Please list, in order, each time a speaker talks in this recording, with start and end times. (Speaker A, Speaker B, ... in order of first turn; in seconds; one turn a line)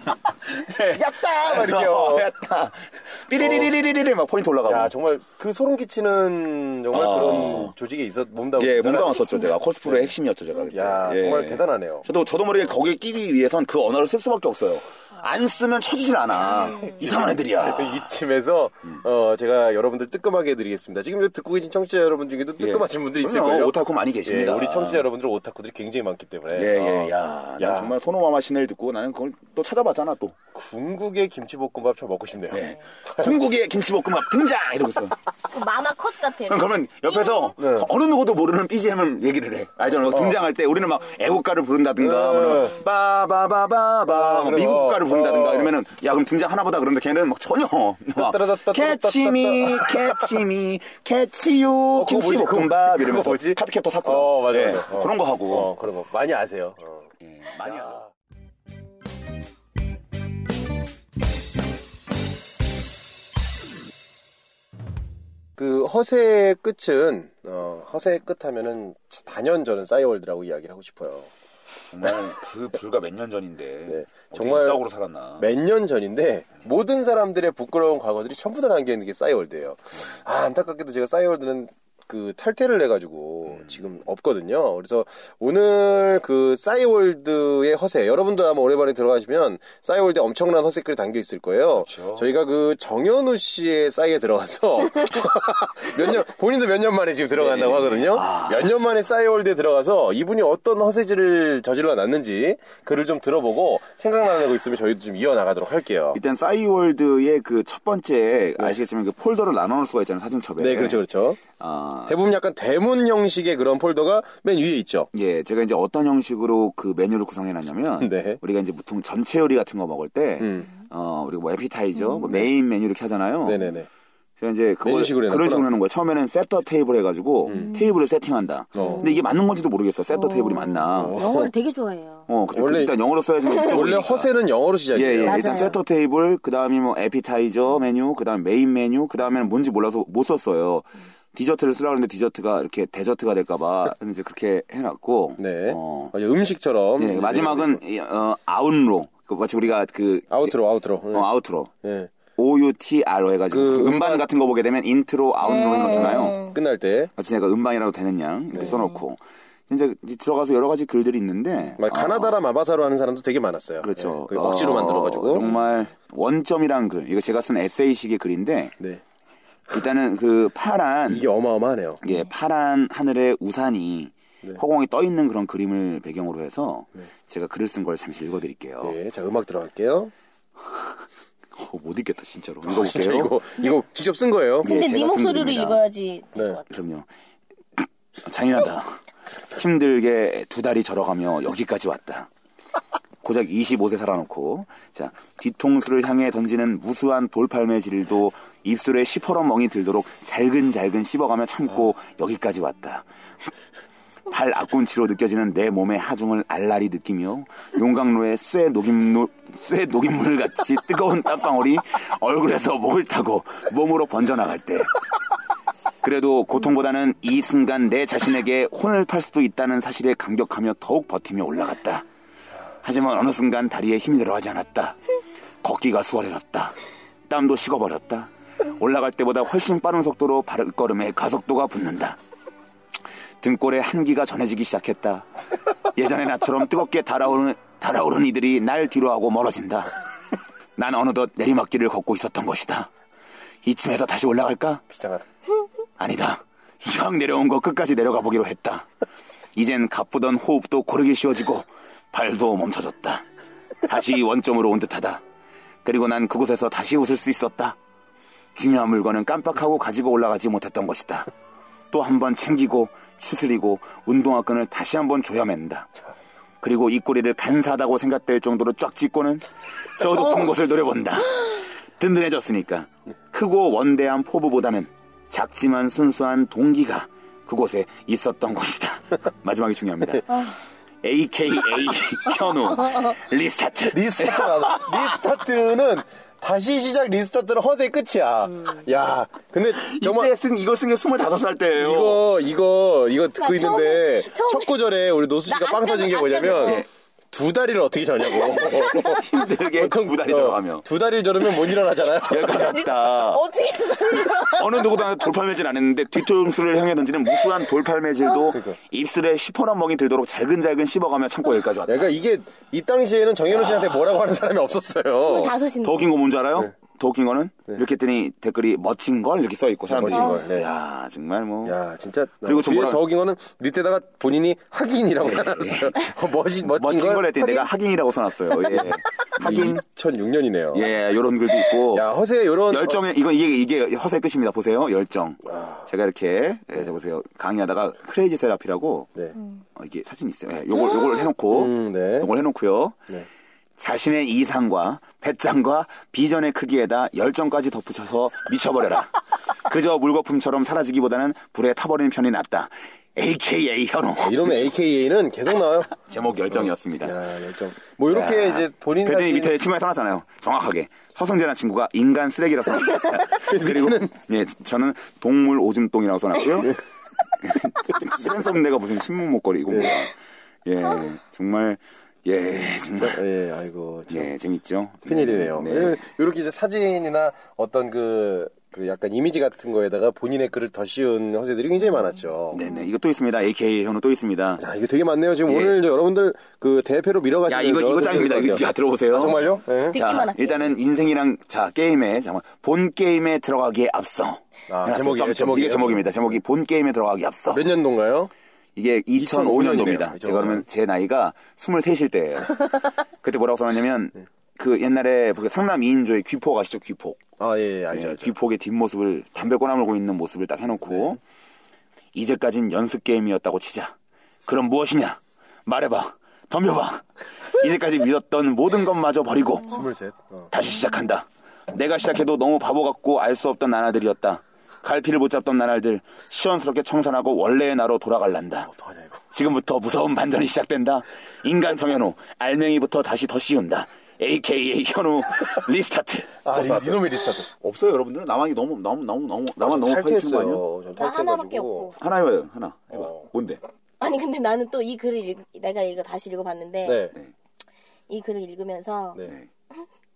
Speaker A: 0.5-4.9
Speaker B: 1.3-2.3
Speaker B: 3.4-3.7
Speaker B: 4.7-10.1
Speaker A: 6.9-7.7
Speaker A: 8.6-18.1
Speaker B: 10.7-12.1
Speaker B: 16.8-27.9
Speaker A: 22.6-25.1
Speaker A: 26.5-30.4
Speaker B: 30.5-33.3
Speaker A: 32.5-35.2
Speaker C: 35.5-37.5
Speaker A: 36.5-55.7
Speaker B: 37.6-37.9
Speaker B: 40.1-40.4
Speaker B: 42.0-42.8
Speaker B: 44.1-45.7
Speaker B: 48.2-50.3
Speaker B: 52.0-57.1
Speaker A: 57.2-58.1
Speaker B: 57.7-58.0
Speaker B: 65.6-71.3
Speaker A: 71.9-75.5
Speaker B: 73.9-74.8
Speaker B: 75.4-106.2
Speaker A: 91.8-92.3
Speaker A: 97.4-98.7
Speaker A: 106.1-111.0
Speaker B: 110.6-111.4
Speaker A: 111.6-112.2
Speaker B: 112.1-115.1
Speaker A: 115.1-123.7
Speaker B: 118.0-118.4
Speaker B: 120.4-120.7
Speaker B: 123.4-123.9
Speaker A: 124.4-131.2
Speaker B: 124.8-125.7
Speaker B: 127.5-127.7
Speaker C: 127.5-127.8
Speaker B: 128.8-129.1
Speaker C: 128.8-129.1
Speaker C: 130.1-132.3
Speaker B: 130.9-131.5
Speaker A: 132.3-134.3
Speaker B: 132.5-132.9
Speaker B: 133.6-135.7
Speaker A: 134.9-146.1
Speaker C: 135.3-135.8
Speaker B: 145.4-147.8
Speaker A: 147.0-150.6
Speaker B: 150.3-151.3
Speaker A: 151.1-151.7
Speaker B: 151.8-152.1
Speaker A: 152.4-156.4
Speaker B: 153.5-154.3
Speaker C: 155.5-156.6
Speaker B: 155.9-157.1
Speaker A: 157.2-162.4
Speaker B: 158.5-158.8
Speaker B: 161.8-165.5
Speaker A: 163.8-168.8
Speaker A: 169.7-171.3
Speaker B: 171.1-172.0
Speaker A: 172.0-179.0
Speaker B: 178.8-180.1
Speaker A: 181.6-183.4
Speaker B: 182.7-184.7
Speaker A: 184.6-185.8
Speaker C: 184.6-186.7
Speaker B: 186.3-186.6
Speaker A: 186.7-187.1
Speaker A: 187.8-189.0
Speaker A: 189.5-192.3
Speaker A: 193.2-203.1
Speaker A: 204.3-215.0
Speaker A: 216.0-222.1
Speaker A: 222.8-225.0
Speaker A: 225.6-226.8
Speaker A: 227.3-232.2
Speaker A: 233.4-235.3
Speaker A: 235.9-239.9
Speaker A: 240.8-242.9
Speaker A: 243.6-244.8
Speaker B: 244.9-245.2
Speaker A: 246.0-248.9
Speaker A: 249.6-253.3
Speaker A: 253.8-255.2
Speaker A: 255.8-257.8
Speaker A: 258.6-261.3
Speaker A: 261.9-265.9
Speaker A: 266.6-285.2
Speaker B: 283.9-290.3
Speaker A: 289.7-292.3
Speaker B: 291.8-302.8
Speaker C: 293.4-294.8
Speaker C: 295.5-296.9
Speaker A: 298.4-300.9
Speaker A: 302.1-303.4
Speaker C: 302.4-305.1
Speaker A: 303.9-312.1
Speaker B: 311.9-315.6
Speaker A: 313.5-314.1
Speaker C: 315.2-316.1
Speaker A: 315.8-321.8
Speaker B: 319.9-320.7
Speaker C: 320.1-320.5
Speaker B: 321.6-327.7
Speaker A: 322.4-323.1
Speaker A: 325.3-326.1
Speaker A: 326.6-329.8
Speaker B: 329.4-330.9
Speaker A: 330.7-332.1
Speaker B: 331.9-333.1
Speaker A: 332.7-339.1
Speaker A: 339.8-343.1
Speaker B: 341.5-342.3
Speaker A: 343.8-354.7
Speaker B: 354.2-355.9
Speaker A: 356.1-357.2
Speaker B: 356.5-359.6
Speaker A: 358.1-366.8
Speaker B: 363.4-364.1
Speaker A: 367.4-373.2
Speaker B: 372.5-374.3
Speaker A: 374.1-376.0
Speaker B: 375.1-382.6
Speaker A: 382.5-384.6
Speaker B: 384.6-390.0
Speaker A: 385.5-385.8
Speaker A: 387.5-389.4
Speaker C: 389.8-390.7
Speaker A: 389.9-397.7
Speaker B: 394.7-396.1
Speaker B: 397.5-398.3
Speaker A: 398.8-407.2
Speaker B: 399.2-400.7
Speaker B: 407.4-408.3
Speaker A: 407.9-411.2
Speaker A: 412.1-413.9
Speaker A: 414.5-419.9
Speaker B: 419.7-420.5
Speaker A: 420.5-428.7
Speaker B: 428.7-429.2
Speaker A: 429.3-440.6
Speaker B: 436.4-437.5
Speaker B: 439.6-441.9
Speaker C: 441.0-441.9
Speaker A: 442.0-443.6
Speaker C: 444.0-447.1
Speaker B: 446.8-447.2
Speaker C: 448.1-449.9